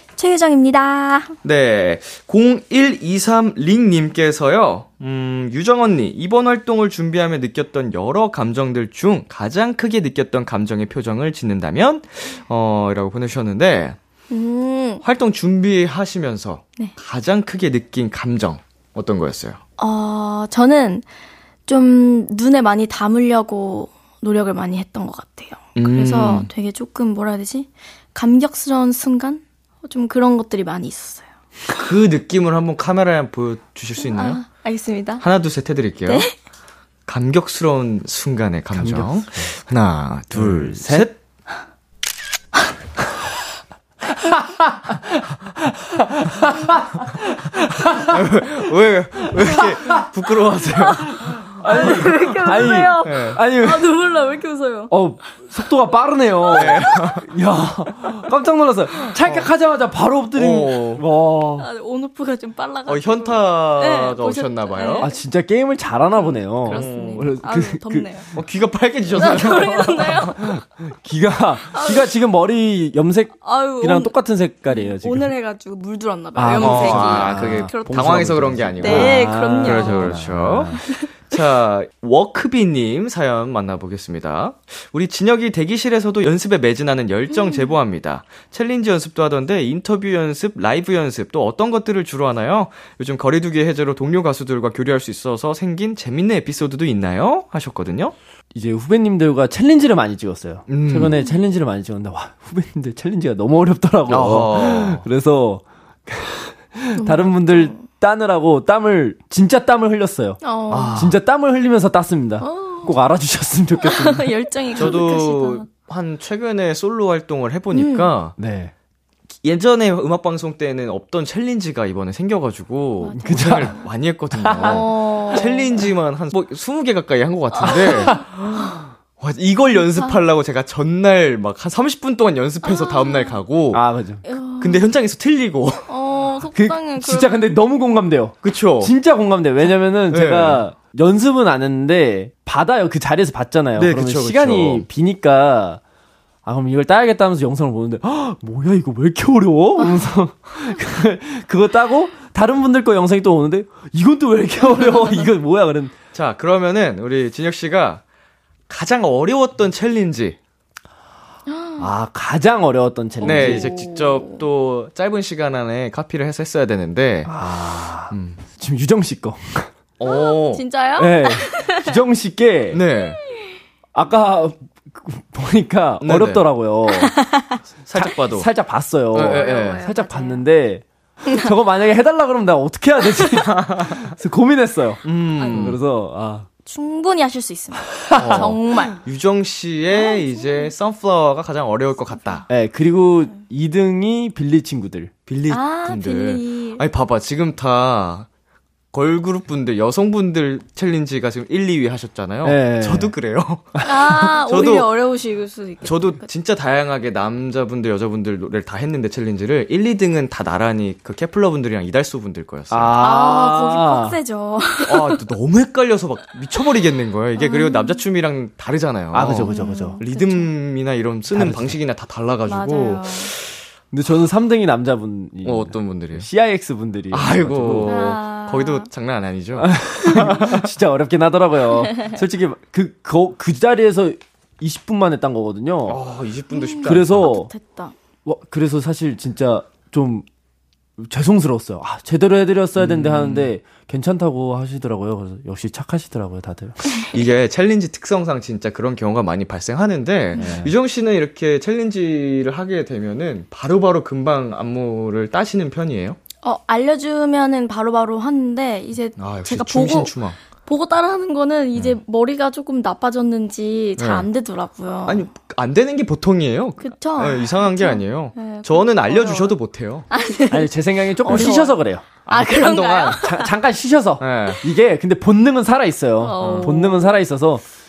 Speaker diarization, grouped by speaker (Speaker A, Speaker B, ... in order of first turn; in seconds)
Speaker A: 0.2-1.3, 14.3-15.0, 19.8-21.0, 21.7-31.3, 34.0-35.2, 36.0-36.3, 50.8-54.9, 56.5-56.9, 61.6-65.1, 66.7-68.3, 69.1-70.4, 71.7-72.1, 73.4-78.0, 78.8-80.2, 80.8-81.1, 87.3-87.7, 107.0-107.8, 110.4-111.0, 112.4-112.9, 113.8-115.7, 117.7-118.1, 123.0-123.8, 124.6-125.6, 127.5-128.8, 132.6-133.4, 134.2-134.9, 135.9-137.6, 154.6-155.3, 161.5-161.9, 163.2-164.4, 170.0-171.9, 176.9-177.5, 179.2-180.4, 185.4-185.7, 186.7-189.0, 189.9-190.7, 195.5-196.8, 203.8-206.2, 213.0-215.2, 217.3-218.0, 219.5-220.5, 222.4-223.3, 227.8-228.9, 236.5-237.9, 256.4-265.2, 266.8-269.6, 270.1-270.7, 271.2-273.5, 276.2-277.2
Speaker B: 1.4-14.0, 15.0-19.6, 25.8-26.5, 31.8-34.4, 35.2-36.3, 37.1-41.1, 48.1-51.1, 53.0-53.4, 56.5-57.2, 59.2-59.5, 60.4-61.0, 62.9-65.1, 66.5-67.3, 68.3-70.3, 76.6-98.1, 100.7-101.1, 104.1-105.0, 110.7-111.2, 114.8-118.3, 119.4-133.8, 134.6-135.9, 138.4-138.9, 140.1-140.6, 143.8-144.8, 156.1-158.0, 158.7-160.4, 163.2-167.3, 168.1-168.4, 170.0-170.6, 172.7-173.2, 176.0-176.4, 177.8-178.5, 179.1-179.8, 183.5-184.0, 185.0-185.8, 188.2-192.4, 195.3-198.3, 198.9-204.9, 205.8-213.0, 214.8-223.6, 225.4-226.3, 227.1-230.7, 235.8-237.3, 242.8-243.5, 247.1-256.2, 259.2-260.4, 264.0-264.3, 265.1-270.1, 271.3-271.6, 272.3-273.2, 274.2-274.6, 276.4-276.8
Speaker C: 38.7-39.5, 40.3-41.1, 44.2-48.1, 49.2-49.9, 51.0-53.9, 54.9-61.7, 65.0-68.1, 70.4-75.3, 76.3-80.8, 98.5-110.4, 111.0-114.2, 118.4-118.7, 123.2-123.7, 124.4-125.4, 127.7-128.2, 133.7-134.2, 136.5-145.8, 146.4-155.9, 161.8-163.7, 167.3-169.7, 171.0-172.8, 173.9-177.2, 177.9-180.8, 181.3-186.5, 188.1-188.4, 192.5-195.1, 202.4-203.1, 212.7-214.2, 219.1-220.0, 221.3-221.7, 223.9-227.9, 229.6-236.0, 236.8-237.5, 238.2-240.2, 241.0-246.8, 250.4-250.7, 270.5-272.0, 273.2-277.6